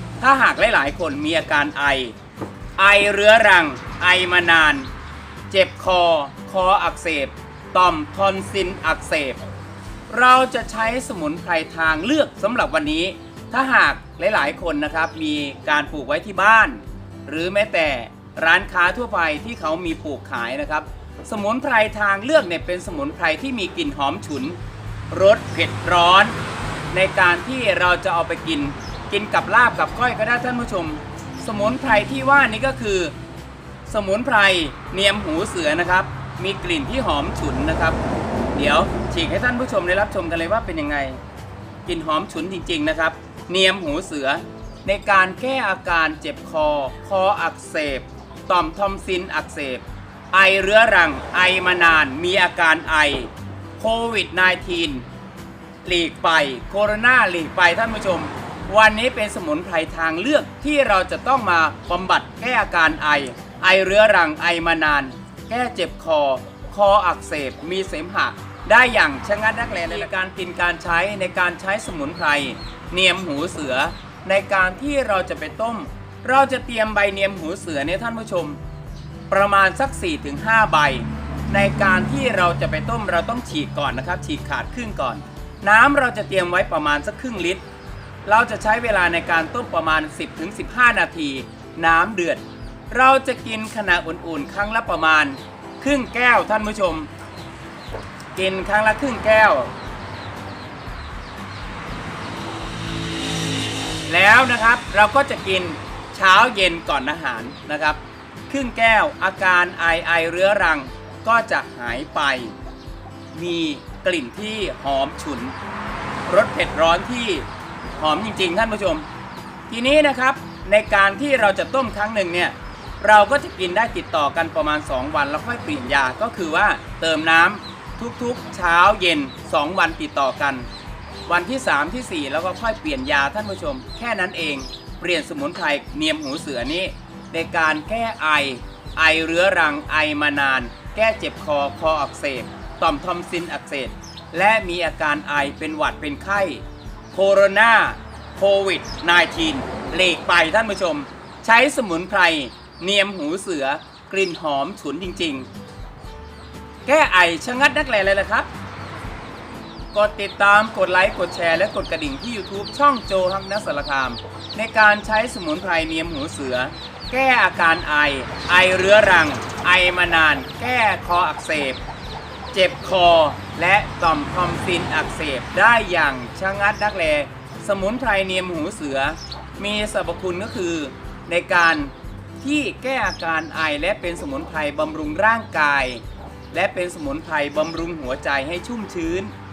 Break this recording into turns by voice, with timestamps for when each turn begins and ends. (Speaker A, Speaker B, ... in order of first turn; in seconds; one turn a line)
Speaker A: 0.2-2.1
Speaker A: 2.8-4.9
Speaker A: 5.5-9.4
Speaker A: 10.1-24.6
Speaker A: 25.1-26.4
Speaker A: 26.9-33.1
Speaker A: 33.9-38.0
Speaker A: 38.5-41.2
Speaker A: 41.9-55.0
Speaker A: 55.8-78.6
Speaker A: 79.3-87.6
Speaker A: 88.2-97.1
Speaker A: 98.3-99.7
Speaker A: 104.1-112.5
Speaker A: 113.3-115.5
Speaker A: 116.3-119.1
Speaker A: 119.7-130.7
Speaker A: 131.2-155.5
Speaker A: 156.8-158.5
Speaker A: 159.9-171.8
Speaker A: 172.5-189.3